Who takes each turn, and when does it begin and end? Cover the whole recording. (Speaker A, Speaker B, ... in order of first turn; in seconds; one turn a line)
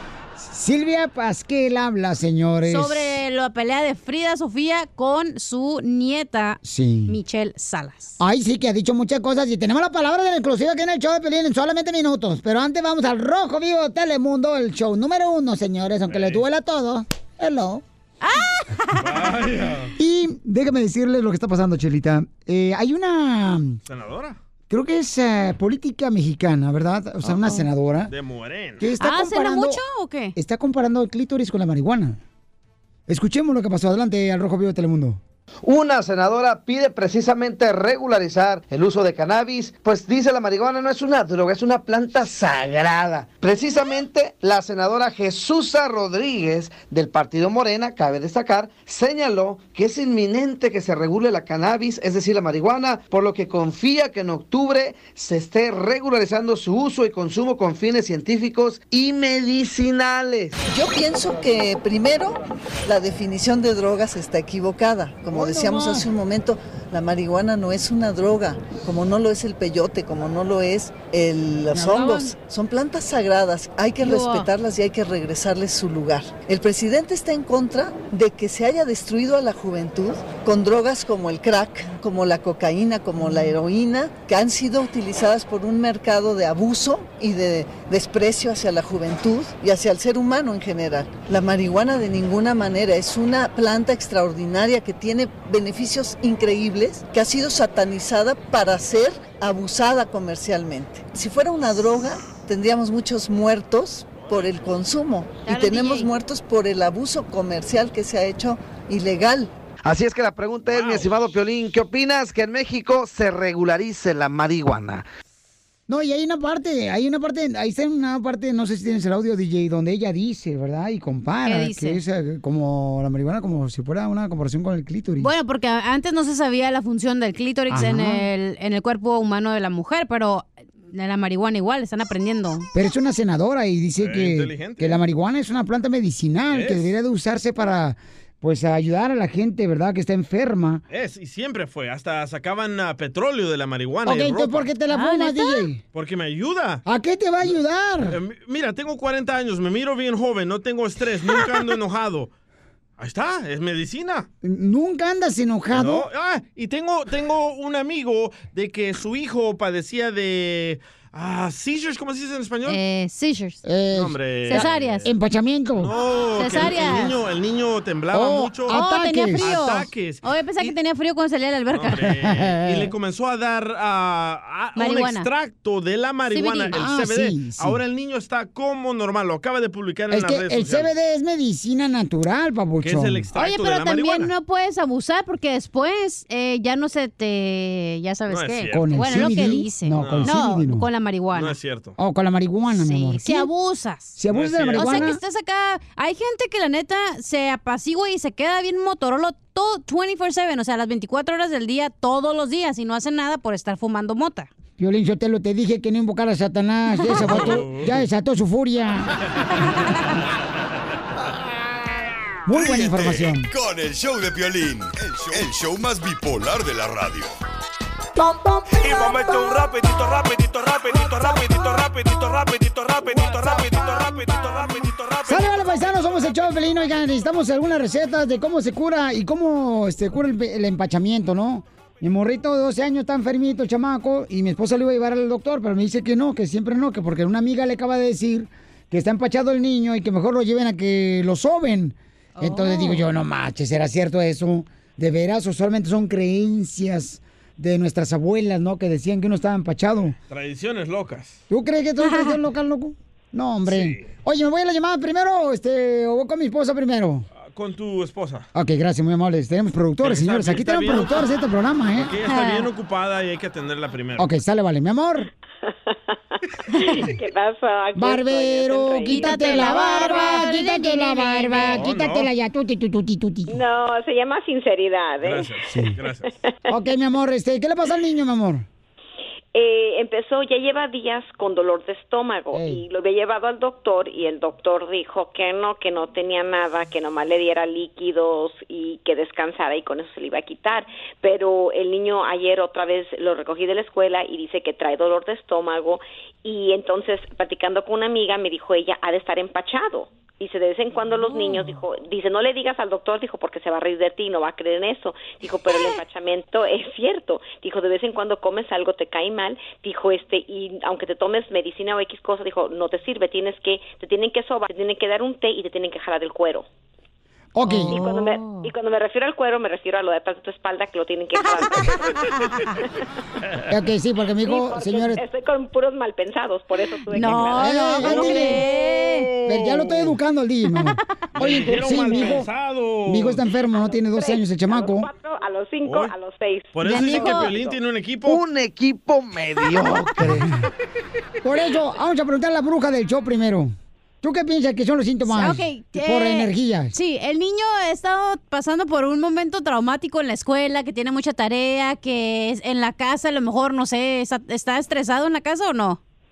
Speaker A: 0.4-3.2
Speaker B: 2.6-8.2
Speaker A: 6.6-7.2
Speaker A: 8.2-17.8
Speaker C: 16.1-16.4
Speaker B: 18.2-19.3
Speaker C: 19.0-19.9
Speaker A: 20.0-23.8
Speaker C: 23.9-24.4
Speaker A: 24.7-28.1
Speaker C: 28.1-28.9
Speaker A: 28.8-29.8
Speaker B: 29.0-30.4
Speaker A: 30.4-32.2
Speaker A: 33.1-35.2
Speaker D: 35.7-60.6
Speaker E: 60.7-109.5
Speaker A: 65.3-66.1
Speaker A: 71.7-72.3
Speaker B: 74.0-74.5
Speaker B: 105.4-106.1
Speaker D: 109.8-115.0
Speaker C: 110.7-111.3
Speaker A: 115.9-125.3
Speaker B: 121.5-122.0
Speaker B: 125.2-132.7
Speaker A: 127.7-128.3
Speaker A: 132.7-140.8
Speaker C: 134.0-135.0
Speaker C: 136.5-136.9
Speaker C: 140.9-144.7
Speaker A: 144.1-145.8
Speaker B: 144.9-145.7
Speaker C: 145.9-146.8
Speaker A: 146.9-148.2
Speaker C: 148.1-152.3
Speaker C: 153.0-154.3
Speaker A: 154.4-156.1
Speaker C: 155.7-162.8
Speaker B: 162.7-163.6
Speaker A: 163.6-165.9
Speaker C: 163.9-165.1
Speaker B: 164.5-165.1
Speaker C: 165.8-170.2
Speaker B: 166.3-167.2
Speaker A: 168.1-169.6
Speaker B: 168.7-172.1
Speaker C: 171.7-180.9
Speaker A: 172.1-172.9
Speaker B: 174.8-175.3
Speaker B: 176.3-176.8
Speaker A: 176.7-177.8
Speaker A: 180.1-183.2
Speaker C: 182.8-184.3
Speaker B: 183.3-191.6
Speaker C: 188.3-190.4
Speaker A: 188.7-190.9
Speaker C: 191.3-192.0
Speaker A: 192.0-193.5
Speaker B: 192.7-194.2
Speaker A: 194.2-195.2
Speaker C: 194.3-195.1
Speaker B: 194.7-204.5
Speaker A: 204.8-209.1
Speaker B: 207.0-207.4
Speaker C: 207.2-208.0
Speaker A: 212.5-213.5
Speaker F: 212.5-217.3
Speaker G: 219.1-225.3
Speaker A: 225.2-250.2
Speaker B: 242.4-243.1
Speaker C: 250.3-251.4
Speaker A: 251.5-257.3
Speaker B: 252.0-252.4
Speaker C: 253.7-254.1
Speaker C: 257.4-258.5
Speaker A: 258.5-262.1
Speaker C: 260.0-261.3
Speaker C: 261.9-264.3
Speaker B: 262.2-262.7
Speaker A: 264.2-265.3
Speaker H: 265.7-269.9
Speaker A: 267.9-273.6
Speaker B: 269.1-271.9
Speaker C: 271.7-272.3
Speaker H: 273.5-275.5
Speaker C: 275.2-276.3
Speaker A: 275.7-276.0
Speaker H: 276.3-276.6
Speaker A: 276.7-278.7
Speaker H: 279.5-316.7
Speaker A: 282.5-282.8
Speaker B: 301.4-301.8
Speaker A: 317.5-318.0
Speaker B: 317.6-318.7
Speaker H: 317.9-322.3
Speaker A: 323.7-325.2
Speaker H: 324.4-328.2
Speaker B: 327.1-329.3
Speaker A: 327.6-328.7
Speaker C: 328.1-330.2
Speaker A: 329.5-332.5
Speaker C: 331.4-333.4
Speaker A: 333.0-335.1
Speaker H: 333.7-337.8
Speaker C: 335.9-336.1
Speaker C: 336.7-338.4
Speaker B: 336.8-337.6
Speaker D: 338.3-340.5
Speaker A: 341.4-346.9
Speaker B: 345.2-356.0